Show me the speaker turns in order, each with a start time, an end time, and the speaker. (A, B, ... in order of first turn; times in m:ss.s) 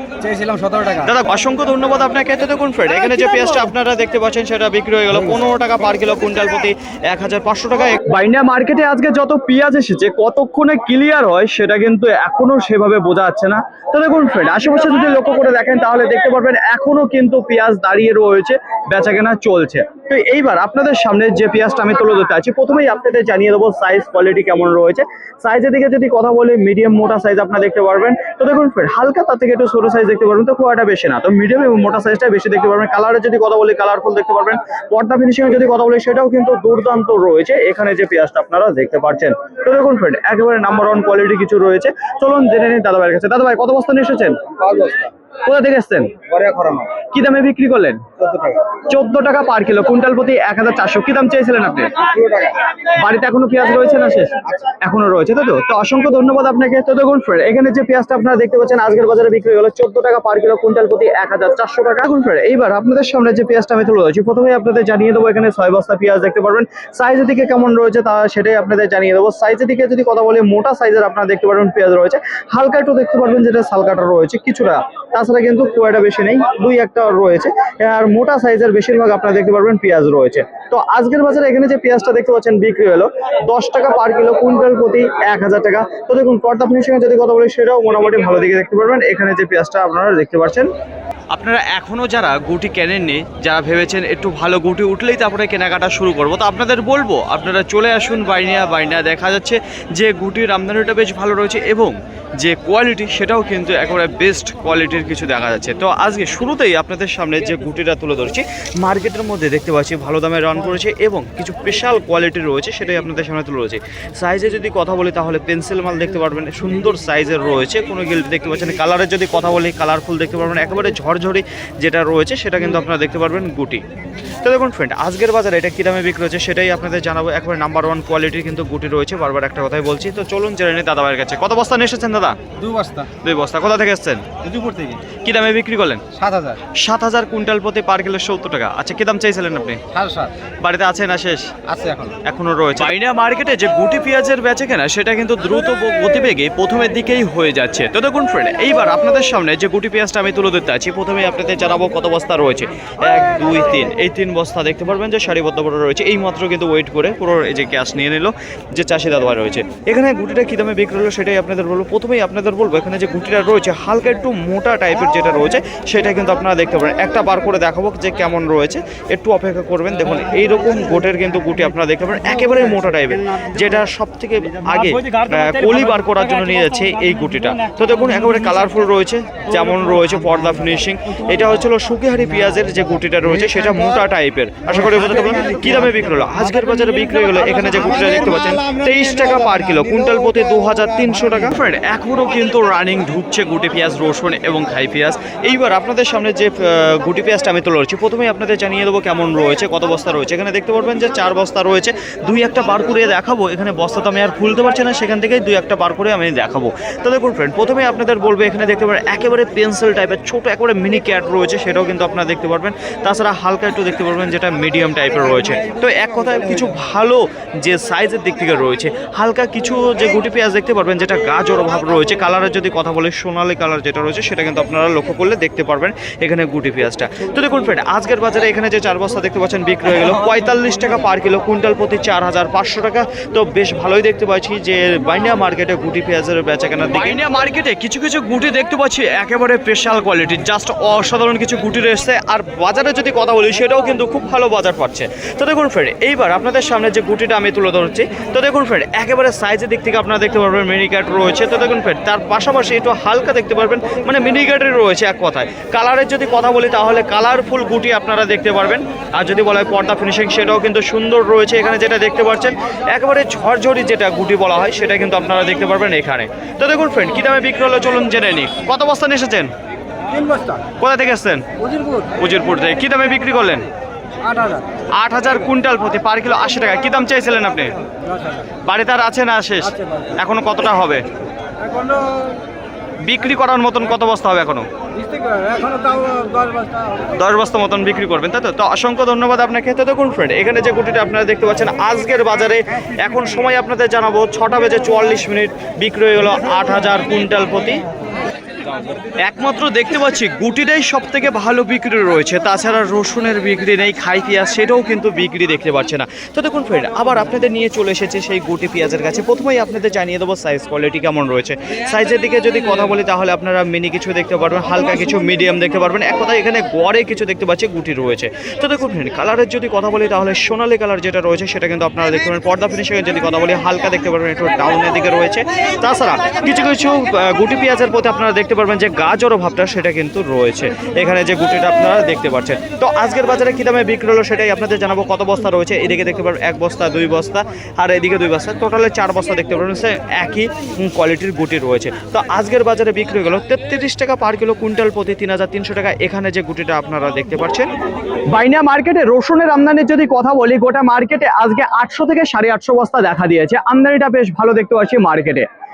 0:00.2-0:01.1 A
0:01.0-0:08.0 B
0:08.0-1:30.7 C
1:31.3-2:03.8 B
2:04.4-2:12.4 B
2:12.6-2:13.1 A
2:13.2-2:14.4 B
2:14.4-2:15.0 A
2:15.2-2:16.1 B
2:16.1-2:16.6 A
2:16.8-2:19.8 B
2:19.9-2:20.3 A
2:20.6-2:21.6 B
2:21.7-2:22.2 A
2:22.2-4:29.5 B
4:30.1-4:30.6 A
4:30.8-4:31.4 B
4:31.6-4:32.1 A
4:32.2-4:33.7 B
4:34.2-4:34.6 A
4:35.0-4:37.7 B
4:38.1-4:38.5 A
4:38.6-4:41.1 B
4:39.7-4:40.1 A
4:41.6-4:42.4 A
4:43.0-4:44.7 B
4:45.0-4:47.1 A
4:47.1-4:57.8 B
4:59.2-5:47.7 B
5:48.3-5:55.5 C